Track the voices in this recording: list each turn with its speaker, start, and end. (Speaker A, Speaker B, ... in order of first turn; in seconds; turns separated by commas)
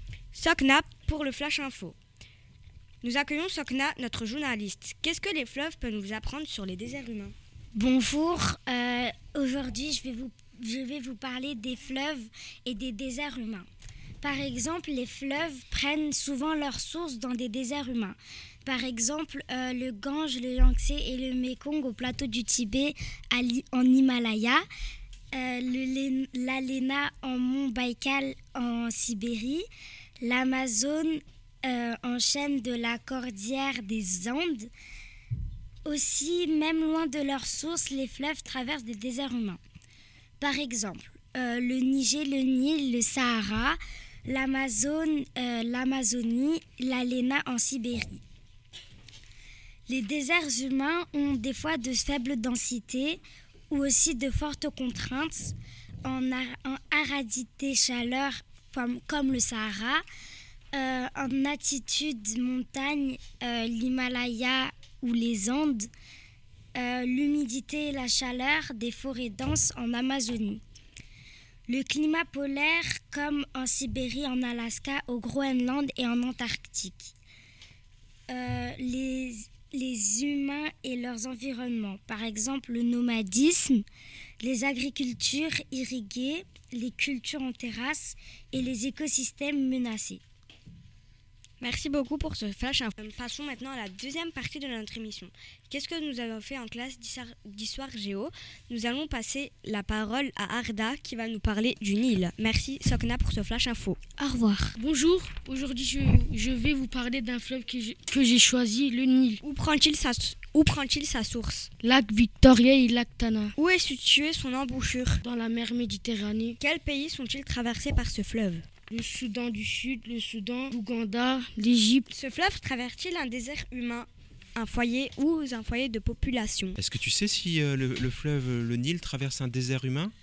Speaker A: 0.3-2.0, Speaker A: 3.0-7.3, Speaker B: 7.8-13.7, Speaker B: 14.2-24.6, Speaker B: 25.3-29.7, Speaker B: 30.2-34.7, Speaker B: 35.9-39.6, Speaker B: 40.4-48.2, Speaker B: 49.9-60.0, Speaker B: 60.7-65.9, Speaker B: 66.8-70.6, Speaker B: 71.7-77.1, Speaker B: 78.3-83.8, Speaker B: 84.4-90.2, Speaker A: 91.6-104.0, Speaker C: 104.2-109.4, Speaker A: 109.4-111.7, Speaker C: 111.8-113.5, Speaker A: 113.6-115.2, Speaker C: 115.2-116.6, Speaker A: 116.6-118.7, Speaker C: 118.9-122.1, Speaker A: 122.1-126.8, Speaker D: 126.8-130.1